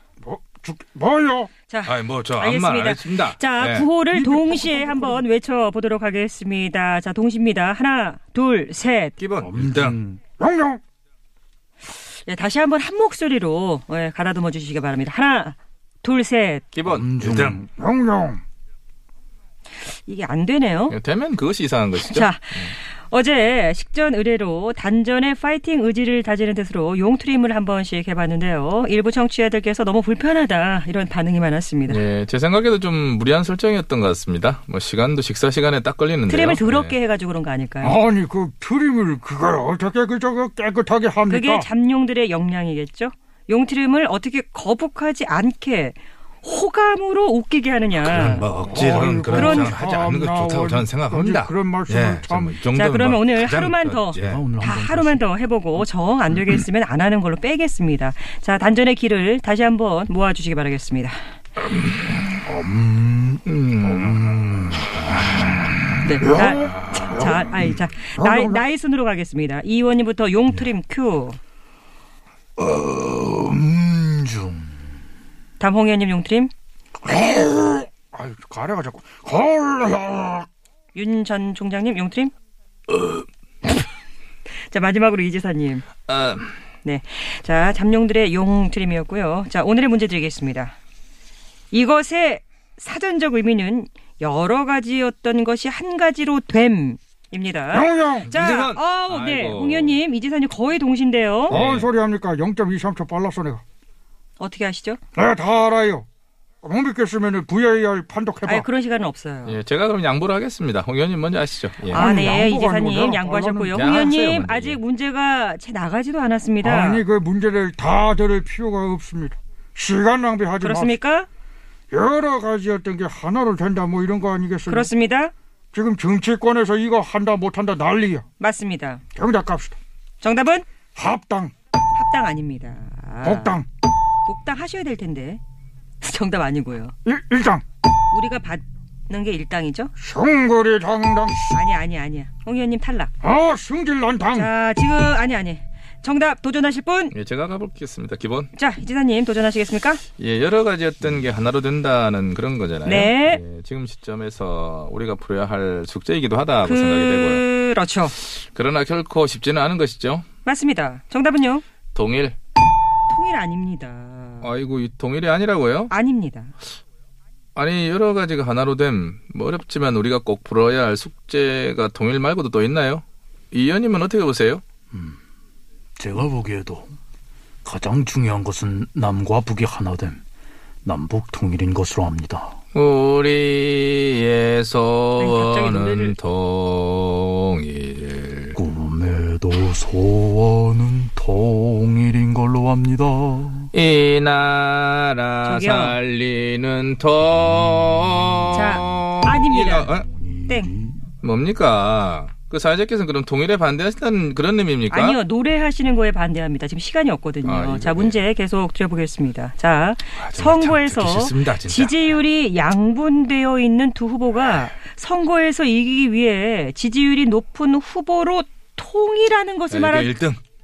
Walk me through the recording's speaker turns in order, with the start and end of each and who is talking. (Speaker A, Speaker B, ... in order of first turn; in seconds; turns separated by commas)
Speaker A: 0.2-1.5, Speaker B: 1.7-9.2, Speaker C: 1.9-3.9, Speaker A: 4.1-5.2, Speaker D: 9.2-9.5, Speaker E: 9.4-10.2, Speaker C: 9.4-9.9, Speaker A: 10.4-10.8, Speaker B: 12.2-16.6, Speaker D: 16.7-17.5, Speaker E: 16.8-17.7, Speaker A: 17.7-18.4, Speaker B: 19.8-21.0, Speaker D: 20.9-22.7, Speaker B: 22.0-32.0, Speaker D: 31.9-37.0, Speaker B: 36.3-38.0, Speaker A: 37.8-41.7, Speaker B: 41.3-48.5, Speaker C: 48.0-54.4, Speaker A: 48.6-52.5, Speaker B: 49.2-49.8, Speaker B: 52.7-61.2, Speaker E: 54.1-55.3, Speaker C: 61.8-62.9, Speaker C: 63.5-64.3, Speaker E: 63.9-65.3, Speaker B: 66.0-71.4, Speaker A: 66.2-67.5, Speaker C: 66.7-67.0, Speaker A: 68.2-68.6, Speaker E: 72.6-74.9, Speaker B: 75.6-76.5, Speaker A: 77.0-80.5, Speaker B: 80.9-82.3, Speaker B: 84.7-85.9, Speaker D: 86.1-86.6, Speaker B: 86.8-90.8, Speaker B: 91.7-101.6, Speaker A: 97.7-98.3, Speaker D: 98.2-100.0, Speaker D: 101.5-101.9, Speaker A: 101.5-103.6, Speaker B: 104.4-105.0, Speaker A: 105.2-106.1, Speaker A: 106.6-108.7, Speaker B: 108.5-109.6, Speaker D: 109.5-112.1, Speaker B: 111.9-117.0, Speaker A: 111.9-113.8, Speaker D: 113.7-114.8, Speaker A: 116.6-121.0, Speaker B: 120.6-121.3, Speaker A: 121.9-124.9, Speaker B: 124.7-125.3, Speaker A: 125.7-128.3, Speaker B: 128.4-129.0, Speaker A: 129.2-129.8, Speaker B: 130.2-130.7, Speaker A: 130.9-131.5, Speaker B: 131.9-133.6, Speaker A: 133.2-133.7, Speaker B: 134.3-135.4, Speaker B: 136.0-136.9, Speaker A: 137.1-137.6, Speaker B: 138.1-139.9, Speaker A: 140.0-141.6, Speaker B: 141.5-143.1, Speaker A: 143.2-144.5, Speaker B: 144.3-147.2, Speaker D: 147.1-148.5, Speaker B: 148.5-150.0, Speaker D: 150.2-157.4, Speaker B: 152.8-153.4, Speaker B: 156.7-158.2, Speaker D: 158.2-160.2, Speaker B: 160.4-161.6, Speaker D: 161.9-162.4, Speaker B: 163.1-164.5, Speaker D: 164.4-165.9, Speaker B: 165.9-166.5, Speaker D: 167.6-174.6, Speaker E: 174.9-175.2, Speaker E: 176.0-176.9, Speaker E: 177.7-180.2, Speaker E: 180.8-182.6, Speaker D: 182.7-188.6, Speaker B: 185.2-186.2, Speaker E: 188.6-193.7, Speaker D: 193.7-200.1, Speaker B: 195.4-196.0, Speaker B: 198.5-199.9, Speaker E: 199.8-201.1, Speaker D: 201.2-205.2, Speaker B: 204.9-220.1, Speaker D: 207.4-208.2, Speaker C: 210.2-212.1, Speaker C: 219.7-220.4